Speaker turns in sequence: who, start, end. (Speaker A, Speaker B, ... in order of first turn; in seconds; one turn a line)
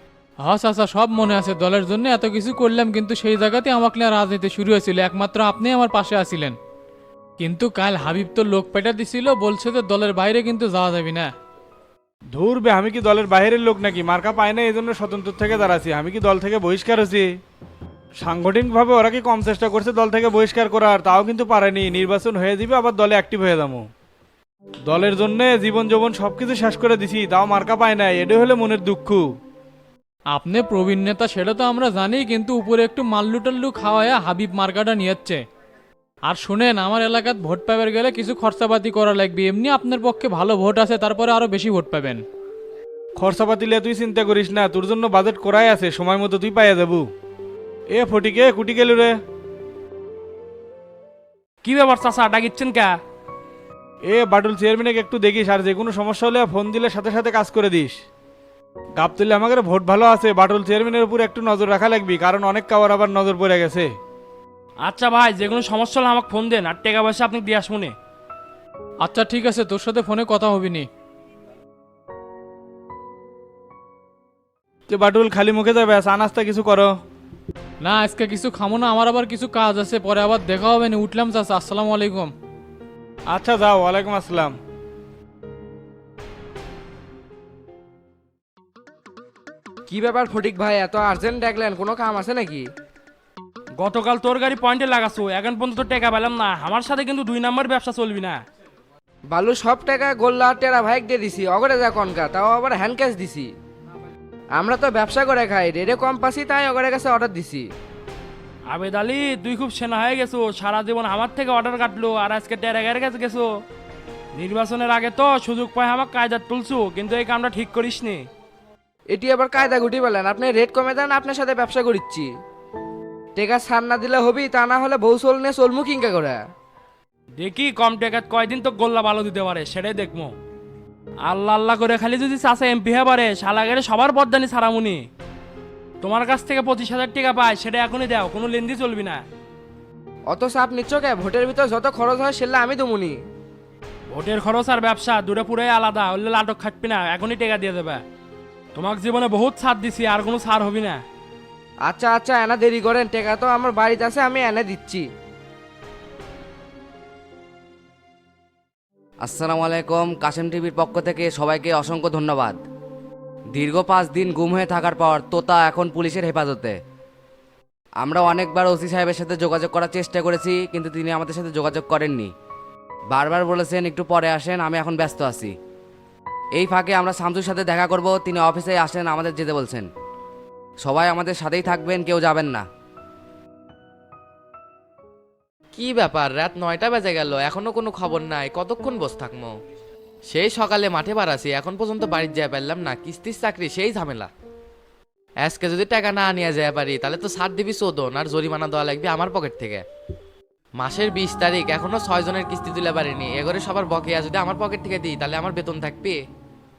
Speaker A: 0.4-6.6
Speaker A: 7.4-11.3
Speaker B: 12.3-17.3
Speaker B: 18.2-23.9
Speaker B: 24.9-29.2
Speaker A: 30.3-35.4
Speaker A: 36.3-42.2
Speaker B: 43.2-47.1
Speaker B: 47.9-49.1
Speaker C: 51.6-53.0
Speaker B: 54.1-58.0
Speaker B: 59.0-63.9
Speaker C: 64.8-68.0
Speaker A: 69.0-70.9
Speaker B: 74.9-76.9
Speaker A: 77.8-82.3
Speaker B: 83.3-84.5
Speaker D: 89.9-92.7
Speaker C: 93.8-98.4
Speaker D: 99.3-103.5
Speaker D: 104.5-107.7
Speaker C: 108.7-113.6
Speaker C: 114.3-118.3
Speaker D: 119.1-122.3
Speaker D: 123.3-126.4
Speaker C: 127.4-130.3
Speaker C: 131.2-135.1
Speaker C: 136.0-139.2
Speaker D: 140.3-143.2
Speaker C: 144.1-148.0
Speaker C: 148.7-151.0
Speaker D: 151.8-155.1
Speaker E: 159.2-162.6
Speaker E: 163.6-166.8
Speaker E: 168.0-172.3
Speaker E: 173.1-175.5
Speaker E: 176.6-179.9
Speaker E: 180.8-182.7
Speaker F: 185.8-189.5
Speaker F: 190.3-194.3
Speaker F: 195.4-199.8
Speaker F: 200.8-206.2